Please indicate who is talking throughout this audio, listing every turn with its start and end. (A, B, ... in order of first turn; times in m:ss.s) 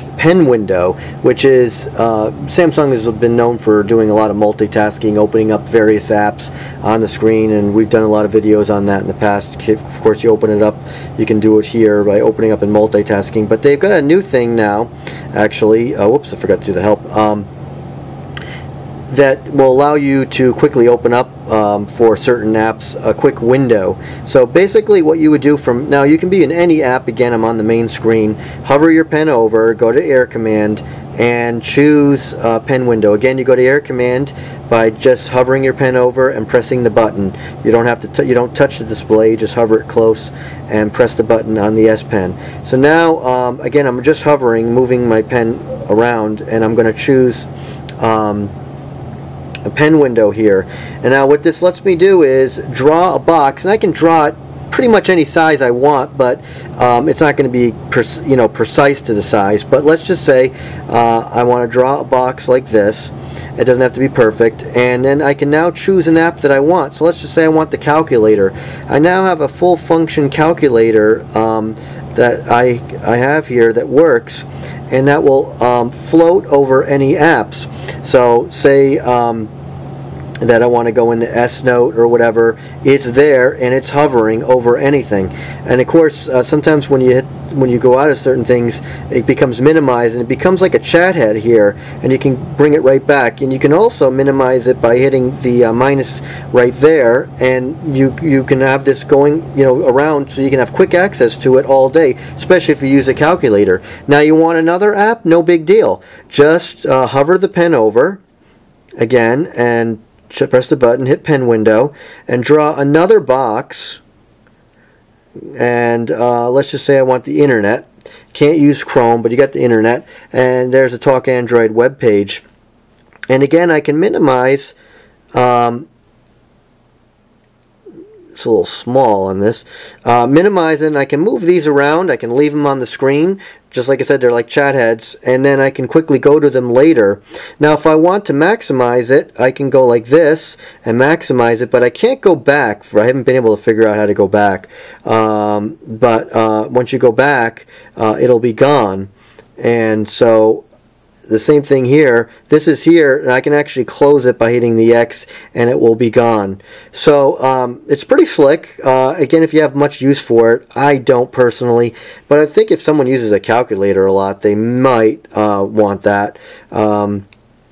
0:00.1-0:17.5 A
0:19.1-0:48.5 A
0:49.6-1:19.5 A
1:20.4-1:48.2 A
1:49.0-1:54.0 A
1:55.4-2:02.4 A
2:03.3-2:04.7 A
2:05.3-2:05.9 A
2:08.3-2:30.6 A
2:31.3-2:47.2 A